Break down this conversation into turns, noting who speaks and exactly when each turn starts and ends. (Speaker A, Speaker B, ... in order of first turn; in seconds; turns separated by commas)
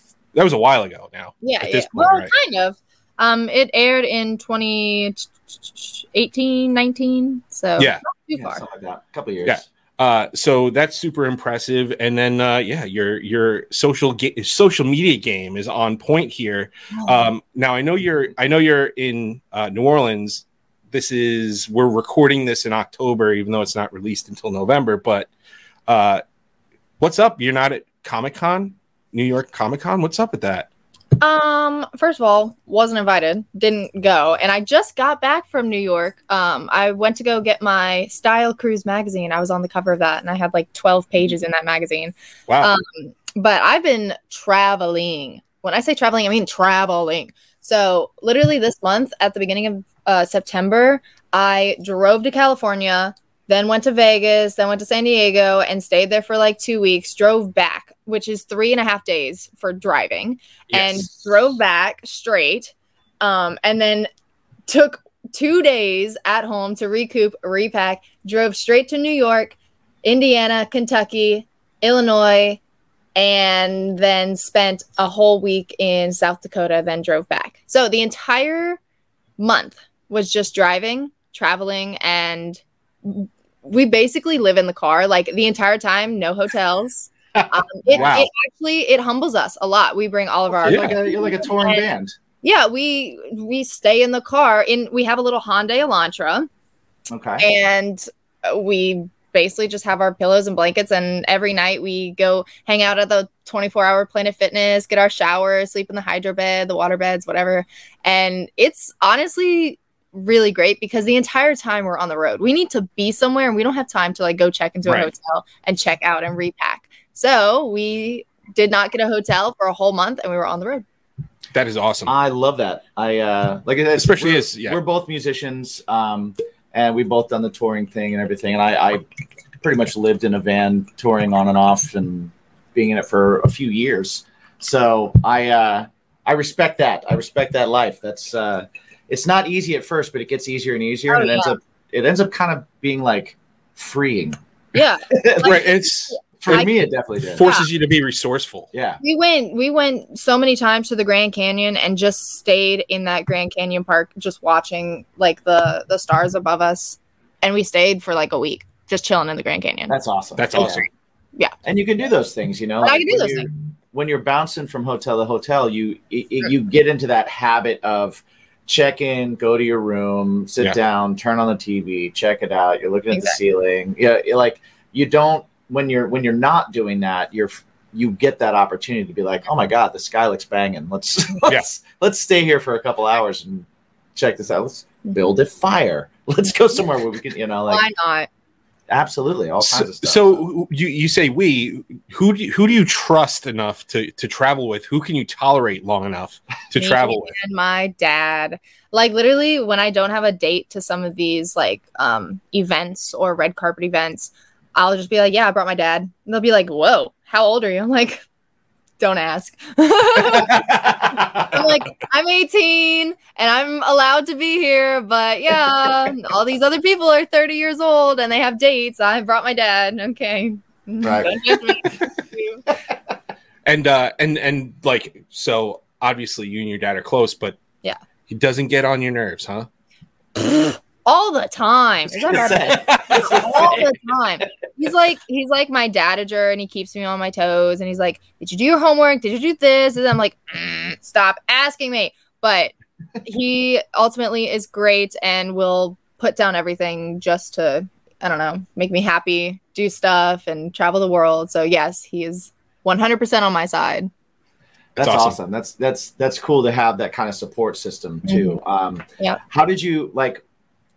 Speaker A: 0.3-2.3, Speaker B: 1.4-8.6, Speaker A: 7.8-8.0, Speaker C: 8.3-9.6, Speaker A: 9.4-25.3, Speaker B: 16.9-17.2, Speaker A: 25.9-26.2, Speaker A: 27.0-30.7, Speaker B: 31.2-64.1, Speaker A: 42.5-42.7, Speaker A: 60.7-61.2, Speaker B: 64.7-72.6, Speaker B: 73.2-78.8, Speaker B: 79.4-91.9, Speaker C: 87.3-88.2, Speaker A: 87.9-88.3, Speaker C: 90.5-92.1, Speaker A: 90.7-91.0, Speaker B: 92.4-96.5, Speaker C: 97.1-97.5, Speaker B: 97.4-120.8, Speaker A: 121.5-122.1, Speaker C: 122.0-129.1, Speaker A: 124.0-124.8, Speaker C: 129.6-144.4, Speaker B: 141.1-141.6, Speaker B: 144.7-146.7, Speaker C: 145.1-145.7, Speaker A: 145.4-146.7, Speaker C: 146.4-147.4, Speaker A: 147.3-148.7, Speaker B: 147.4-147.7, Speaker C: 148.7-149.0, Speaker B: 149.0-159.9, Speaker C: 159.9-160.8, Speaker A: 160.4-160.9, Speaker B: 160.5-160.9, Speaker C: 161.6-187.9, Speaker B: 162.8-163.5, Speaker B: 187.7-188.3, Speaker C: 188.9-190.4, Speaker A: 189.6-197.3, Speaker B: 196.8-208.2, Speaker B: 209.0-222.7, Speaker C: 210.6-211.4, Speaker C: 221.0-221.6, Speaker A: 223.7-227.6, Speaker A: 228.3-229.7, Speaker B: 230.4-254.1, Speaker C: 232.3-233.9, Speaker C: 254.9-260.4, Speaker A: 255.0-255.4, Speaker B: 258.3-258.6